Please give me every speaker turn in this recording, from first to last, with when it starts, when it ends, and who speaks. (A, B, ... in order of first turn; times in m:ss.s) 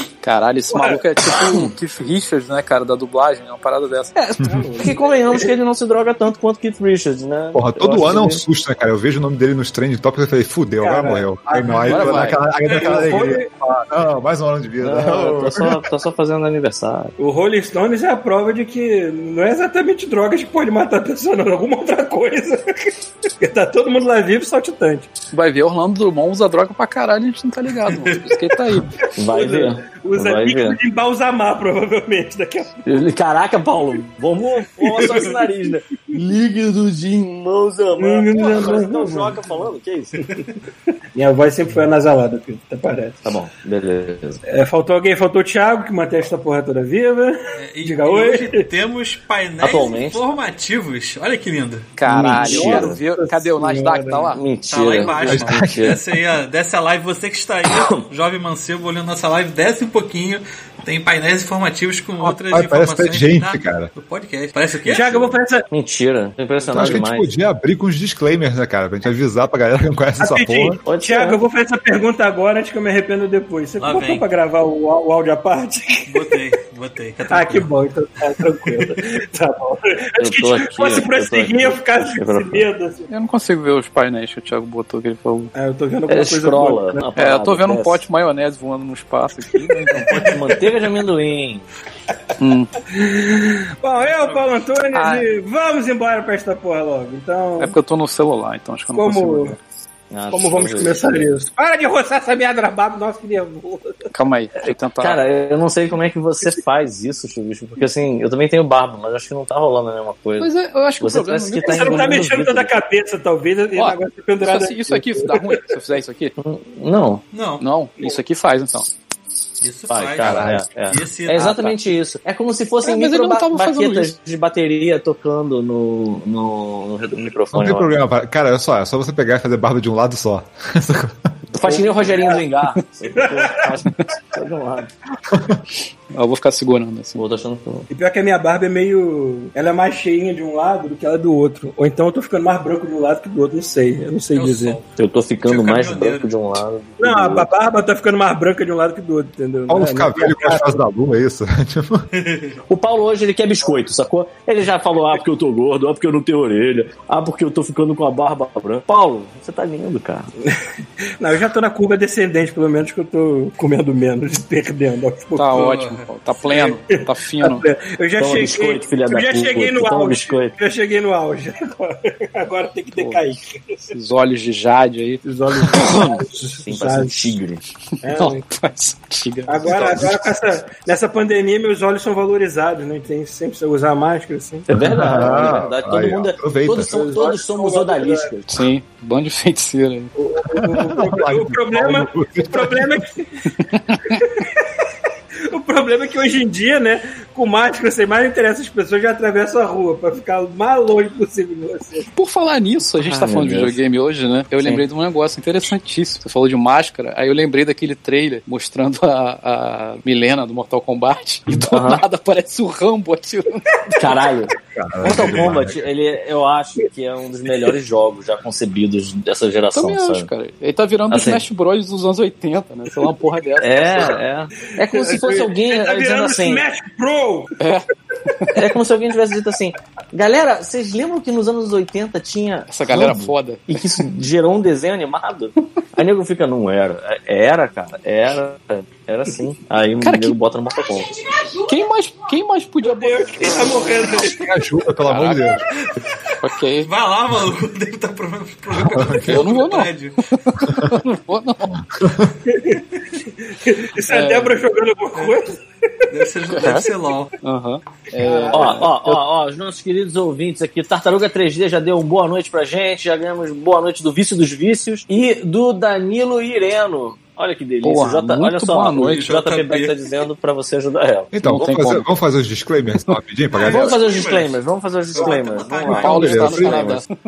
0:00.2-0:04.2 A
0:00.7-0:01.6 B
0:04.2-0:08.4 C
0:04.4-0:05.5 B
0:07.5-0:15.8 D
0:10.8-0:13.5 B
0:11.8-0:12.4 C
0:12.7-0:13.1 E
0:14.8-0:17.1 C
0:17.2-0:25.1 B
0:25.3-0:28.9 A
0:27.9-0:28.3 E
0:29.2-0:30.8 C
0:29.3-0:32.8 B
0:32.8-0:40.2 C
0:34.8-0:35.7 B
0:38.0-0:39.4 B
0:41.2-0:43.2 B
0:43.2-0:44.4 C
0:44.5-0:48.6 B
0:47.6-0:51.9 E
0:49.6-0:50.2 C
0:52.0-0:54.4 A
0:52.1-0:53.0 C
0:52.2-0:54.4 B
0:54.3-0:55.9 C
0:54.7-1:05.4 E
0:55.3-0:56.0 D
0:57.7-0:58.1 C
1:02.2-1:03.9 D
1:04.9-1:05.7 B
1:05.7-1:07.3 C
1:06.7-1:10.8 D
1:10.2-1:16.4 B
1:10.8-1:11.4 C
1:13.8-1:14.2 E
1:16.1-1:17.7 E
1:17.3-1:23.1 B
1:20.2-1:22.7 C
1:23.1-1:25.5 A
1:25.5-1:27.0 B
1:26.1-1:28.0 C
1:27.2-1:30.1 A
1:29.7-1:30.1 B
1:30.1-1:31.6 C
1:32.4-1:32.7 A
1:32.9-1:37.8 B
1:34.1-1:34.4 E
1:34.9-1:35.2 A
1:37.6-1:39.6 A
1:38.9-1:39.6 B
1:40.1-1:41.3 C
1:40.3-1:44.0 B
1:44.1-1:45.2 A
1:45.0-1:52.7 C
1:50.4-1:52.2 A
1:51.6-1:55.7 B
1:53.8-1:56.3 A
1:56.4-1:57.2 C
1:57.3-1:57.6 E
1:57.6-1:58.9 A
1:59.6-2:01.8 E
1:59.9-2:07.9 C
2:00.2-2:00.6 A
2:02.8-2:04.1 A
2:07.5-2:11.4 D
2:11.5-2:14.9 C
2:11.6-2:12.4 B
2:13.1-2:13.7 B
2:15.3-2:15.6 D
2:16.1-2:17.2 A
2:17.2-2:17.9 C
2:17.9-2:24.8 B
2:24.3-2:24.9 E
2:25.0-2:27.5 C
2:25.4-2:26.3 E
2:27.0-2:30.8 B
2:29.7-2:32.1 D
2:32.1-2:32.6 E
2:32.7-2:40.3 C
2:41.2-2:45.6 B
2:45.4-2:47.6 A
2:45.5-2:46.1 E
2:46.4-2:53.9 B
2:48.2-2:50.5 C
2:53.9-2:55.2 A
2:55.2-2:57.3 B
2:55.7-2:57.6 C
2:58.0-2:58.5 B
2:58.1-2:59.6 A
2:59.5-3:04.7 B
2:59.7-3:00.3 D
3:04.7-3:08.6 C
3:04.7-3:07.0 D
3:05.2-3:05.5 B
3:06.8-3:08.3 B
3:08.5-3:10.1 A
3:10.2-3:13.5 B
3:10.5-3:13.0 D
3:13.7-3:14.0 A
3:14.0-3:14.8 B
3:15.5-3:22.1 B
3:22.2-3:33.6 A
3:23.0-3:23.8 C
3:31.7-3:32.0 C
3:34.0-3:40.3 C
3:34.7-3:35.9 D
3:39.7-3:44.2 A
3:41.1-3:41.4 C
3:43.6-3:46.6 C
3:44.8-3:47.5 B
3:47.6-3:48.5 A
3:48.5-4:01.2 C
3:52.7-3:54.0 A
4:00.0-4:00.4 A
4:01.6-4:03.8 A
4:02.8-4:04.5 B
4:04.2-4:05.6 D
4:05.2-4:05.5 E
4:06.4-4:06.9 A
4:06.8-4:10.2 E
4:08.9-4:09.4 D
4:09.2-4:11.8 A
4:11.9-4:12.3 D
4:12.5-4:15.6 B
4:14.1-4:14.6 A
4:16.1-4:17.3 E
4:17.4-4:19.2 A
4:18.1-4:18.8 B
4:18.5-4:31.7 C
4:27.8-4:29.2 A
4:29.0-4:30.0 E
4:31.3-4:34.0 D
4:31.4-4:32.1 A
4:33.5-4:34.6 E
4:33.6-4:37.0 C
4:35.1-4:36.8 E
4:35.2-4:35.4 B
4:35.9-4:37.1 A
4:36.0-4:36.9 D